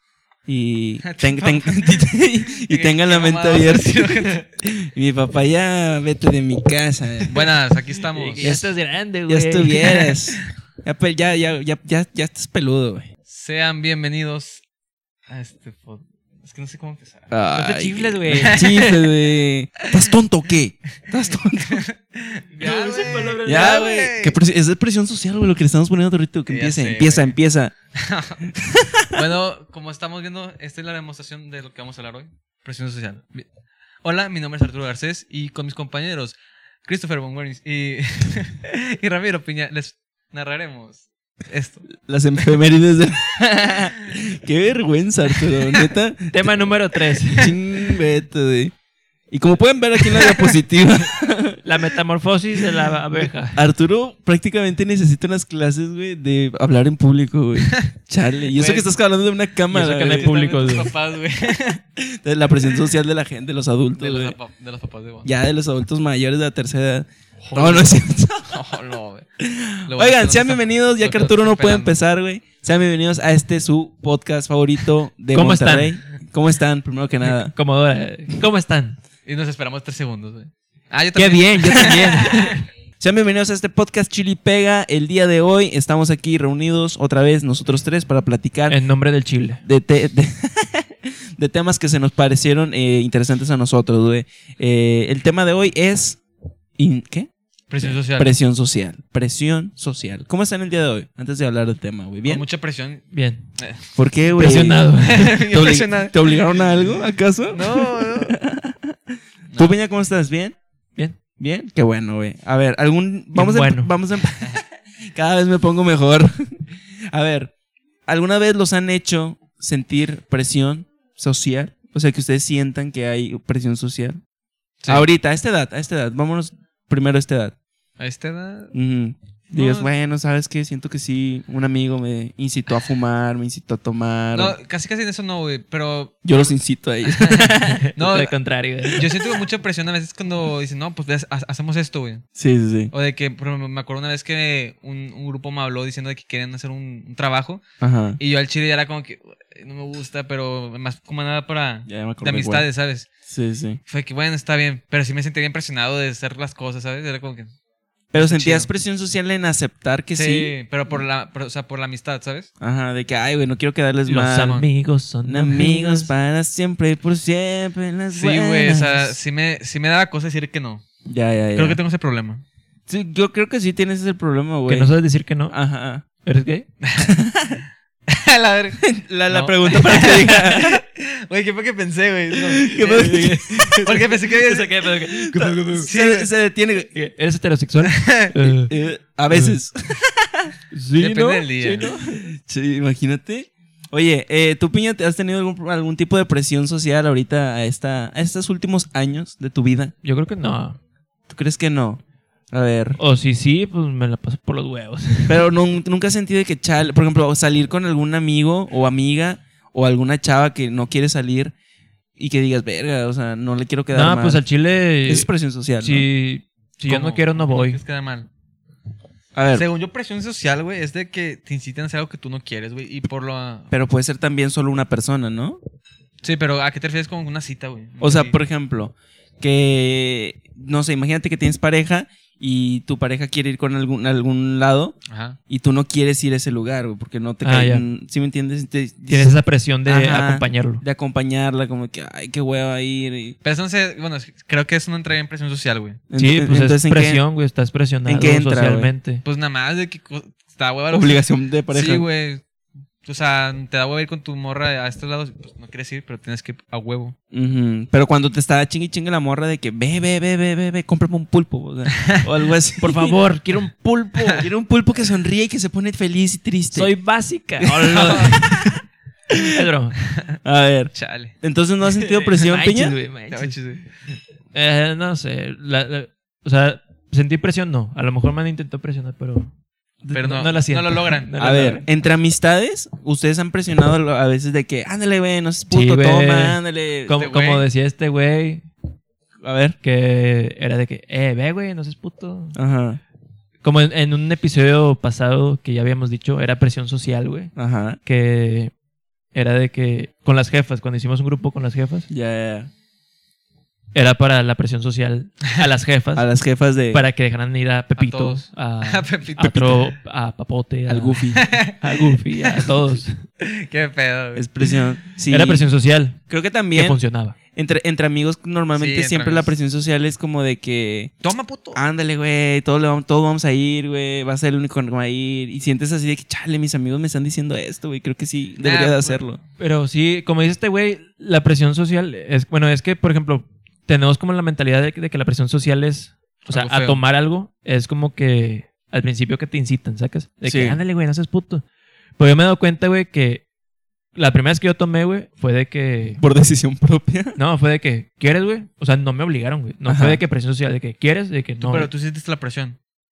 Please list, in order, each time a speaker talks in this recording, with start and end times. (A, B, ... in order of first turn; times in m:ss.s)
0:00.4-0:07.4 A
0:01.0-0:02.1 B
0:02.6-0:04.5 B
0:07.3-0:08.5 B
0:08.1-0:10.1 C
0:08.4-0:08.7 A
0:09.3-0:13.1 A
0:13.3-0:14.6 B
0:15.3-0:17.3 B
0:17.3-0:21.8 A
0:17.5-0:18.6 C
0:18.3-0:19.2 B
0:21.6-0:24.4 B
0:22.6-0:23.8 C
0:22.6-0:27.7 A
0:26.5-0:27.4 B
0:28.0-0:28.4 B
0:28.5-0:29.2 A
0:29.1-0:33.4 B
0:34.0-0:41.9 B
0:42.0-0:46.3 A
0:45.5-0:45.9 B
0:46.3-0:47.5 C
0:47.4-0:48.7 A
0:49.3-0:51.6 A
0:50.1-0:50.6 B
0:51.6-0:53.6 C
0:53.5-1:00.3 A
0:58.5-0:58.9 B
0:59.7-1:00.9 C
1:00.0-1:01.8 B
1:02.0-1:04.4 A
1:02.6-1:02.9 B
1:04.0-1:05.3 B
1:05.2-1:08.8 A
1:07.4-1:09.2 B
1:09.4-1:17.5 A
1:09.9-1:11.9 B
1:15.3-1:16.0 C
1:17.2-1:19.0 C
1:19.2-1:22.6 B
1:21.2-1:28.8 A
1:21.5-1:22.6 C
1:28.7-1:29.6 C
1:29.6-1:36.2 A
1:36.8-1:42.4 A
1:37.7-1:38.3 B
1:42.2-1:43.9 B
1:43.1-1:43.4 C
1:44.0-1:49.0 A
1:44.4-1:45.4 C
1:44.7-1:46.5 B
1:47.5-1:48.4 B
1:49.5-1:49.8 B
1:49.6-1:50.6 A
1:51.4-1:54.6 A
1:53.3-1:53.9 C
1:55.1-1:56.6 A
1:57.1-1:57.5 A
1:58.1-2:04.2 A
2:04.9-2:07.5 A
2:08.0-2:08.7 B
2:08.7-2:14.6 A
2:09.5-2:09.9 B
2:14.3-2:16.5 B
2:16.2-2:17.9 A
2:17.1-2:18.3 B
2:17.7-2:19.0 C
2:18.9-2:22.2 B
2:22.4-2:22.9 A
2:22.9-2:27.6 B
2:27.8-2:28.2 A
2:28.2-2:33.1 B
2:31.9-2:32.6 A
2:33.3-2:33.8 A
2:33.9-2:37.5 B
2:38.1-2:40.5 A
2:38.1-2:38.7 B
2:40.2-2:42.5 B
2:42.6-2:44.6 A
2:44.1-2:46.1 C
2:44.3-2:44.6 B
2:45.2-2:49.0 A
2:48.1-2:50.8 B
2:48.6-2:49.0 C
2:51.0-2:51.8 A
2:51.5-2:52.4 B
2:52.9-2:54.9 A
2:54.7-2:55.6 C
2:55.5-2:56.0 A
2:56.2-2:56.7 C
2:56.8-2:57.2 B
2:57.0-2:57.6 A
2:58.1-2:58.8 B
2:58.8-3:00.8 A
2:59.3-2:59.7 C
2:59.3-3:06.3 B
3:02.3-3:06.9 A
3:02.8-3:05.9 C
3:06.9-3:08.7 C
3:07.8-3:08.3 B
3:08.5-3:10.5 A
3:09.3-3:09.6 C
3:10.7-3:12.3 C
3:11.0-3:11.9 B
3:12.1-3:19.9 A
3:20.0-3:20.8 C
3:21.3-3:23.0 A
3:23.0-3:25.5 C
3:25.3-3:31.5 A
3:32.2-3:34.4 A
3:33.9-3:35.3 C
3:35.1-3:36.0 A
3:35.8-3:37.8 C
3:36.9-3:38.3 B
3:39.3-3:39.7 A
3:39.5-3:43.7 B
3:43.7-3:45.6 A
3:46.2-3:48.4 B
3:48.0-3:54.9 A
3:55.1-3:55.4 B
3:55.5-4:03.4 A
3:57.4-3:57.8 C
3:59.1-4:00.8 C
4:03.4-4:06.0 B
4:06.1-4:07.2 A
4:06.2-4:09.2 C
4:08.0-4:08.9 A
4:09.2-4:12.4 B
4:10.9-4:12.0 A
4:13.0-4:17.1 B
4:17.3-4:23.2 A
4:22.0-4:22.2 B
4:22.8-4:24.4 C
4:24.2-4:26.9 A
4:26.7-4:28.7 C
4:27.6-4:29.5 A
4:27.9-4:28.4 B
4:29.5-4:30.0 C
4:30.4-4:33.0 A
4:30.9-4:31.3 B
4:32.0-4:32.5 B
4:32.4-4:33.6 C
4:33.3-4:33.8 B
4:34.5-4:39.5 C
4:40.0-4:40.4 A
4:40.1-4:41.3 B
4:40.1-4:41.8 C
4:41.4-4:47.2 A
4:45.7-4:48.7 C
4:47.1-4:47.7 B
4:49.4-4:49.8 A
4:49.8-4:52.6 C
4:52.5-4:53.0 A
4:53.6-4:57.5 C
4:57.5-4:58.0 A
4:58.0-4:58.7 C
4:59.3-5:02.1 C
5:02.1-5:02.7 A
5:03.9-5:06.2 C
5:06.1-5:07.0 A
5:06.9-5:13.2 C
5:08.0-5:09.9 B
5:10.9-5:11.4 A
5:11.4-5:12.7 B
5:13.4-5:14.8 B
5:14.4-5:15.7 A
5:15.3-5:16.2 C
5:16.3-5:17.0 A
5:16.7-5:17.4 C
5:17.5-5:21.1 A
5:18.7-5:19.5 B
5:21.2-5:21.8 B
5:21.7-5:29.4 A
5:28.6-5:29.2 B
5:29.6-5:41.6 C
5:36.4-5:37.0 B
5:40.4-5:40.8 A
5:42.2-5:43.4 C
5:44.1-5:46.2 C
5:46.2-5:47.4 A
5:47.4-5:51.9 C
5:49.9-5:50.2 A
5:51.6-5:52.8 B